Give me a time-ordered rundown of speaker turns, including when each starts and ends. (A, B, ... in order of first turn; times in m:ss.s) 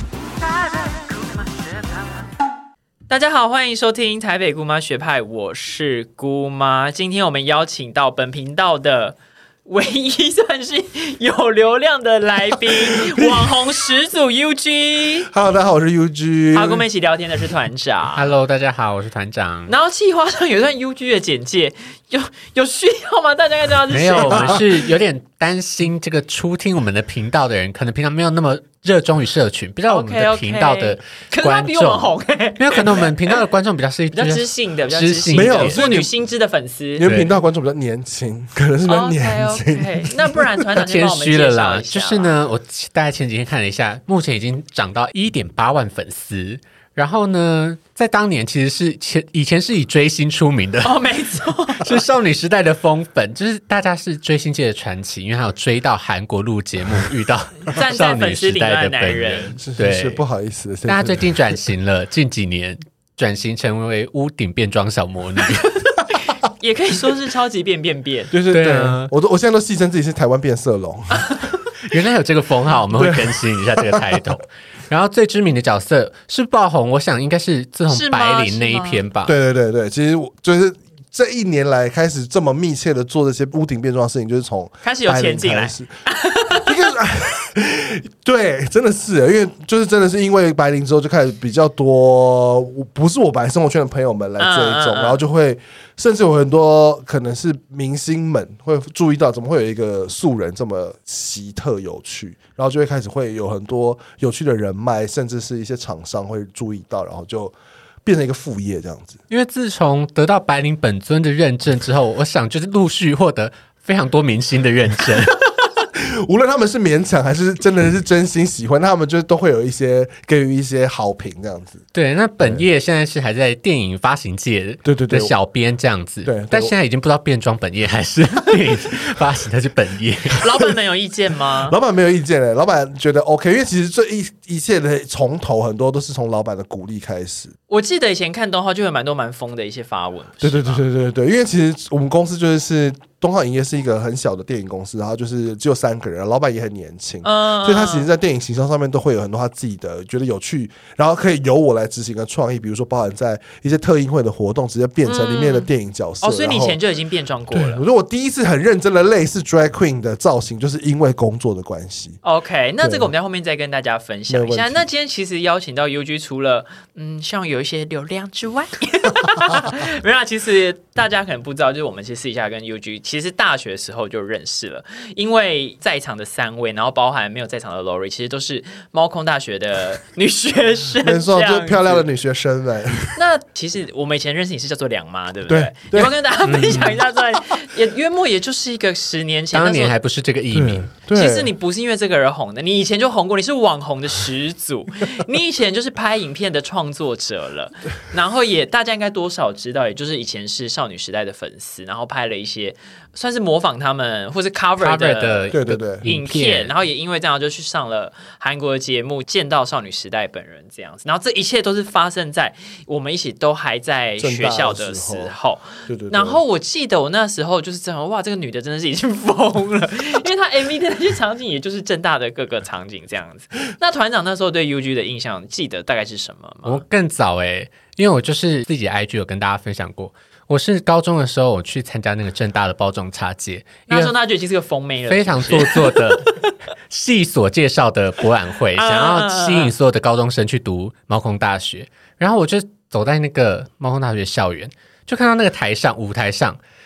0:00.7-0:01.2 A
0:03.1-0:15.3 A
0:12.6-0:13.7 B
0:15.3-0:16.9 B
0:16.5-0:18.3 A
0:18.2-0:19.7 C
0:19.7-0:24.6 A
0:23.9-0:36.0 C
0:24.2-0:24.6 B
0:29.9-0:33.4 A
0:34.1-0:37.1 A
0:35.3-0:36.1 B
0:37.0-0:40.4 B
0:37.0-0:37.3 C
0:38.9-0:42.3 A
0:40.8-0:51.0 C
0:50.8-0:52.0 A
0:51.8-1:00.2 C
0:57.7-0:59.6 A
0:59.5-1:01.6 B
1:00.9-1:05.8 C
1:06.5-1:08.3 A
1:08.3-1:11.4 B
1:08.5-1:09.1 C
1:11.2-1:11.5 A
1:11.8-1:19.3 C
1:12.9-1:14.2 B
1:17.9-1:19.0 A
1:19.3-1:25.9 B
1:24.8-1:26.7 A
1:26.5-1:49.2 B
1:34.4-1:35.2 A
1:49.3-1:55.4 C
1:55.9-2:01.8 B
2:01.9-2:10.5 C
2:02.4-2:02.7 B
2:04.8-2:05.3 B
2:06.2-2:06.7 B
2:10.4-2:11.8 A
2:11.7-2:17.5 B
2:17.7-2:20.8 A
2:20.4-2:36.8 B
2:27.2-2:28.1 A
2:35.0-2:35.7 A
2:36.2-2:37.8 A
2:37.5-2:42.2 B
2:42.2-3:02.0 A
2:42.8-2:43.1 B
2:44.3-2:44.9 B
3:00.9-3:03.2 B
3:03.2-3:09.9 A
3:05.5-3:06.8 B
3:06.5-3:07.0 C
3:09.5-3:10.9 C
3:10.5-3:11.5 B
3:11.1-3:46.8 A
3:24.8-3:26.7 C
3:25.5-3:26.0 B
3:34.2-3:35.3 B
3:35.8-3:36.4 B
3:46.6-3:54.1 C
3:53.9-3:56.5 A
3:55.1-4:06.6 C
3:58.8-3:59.7 A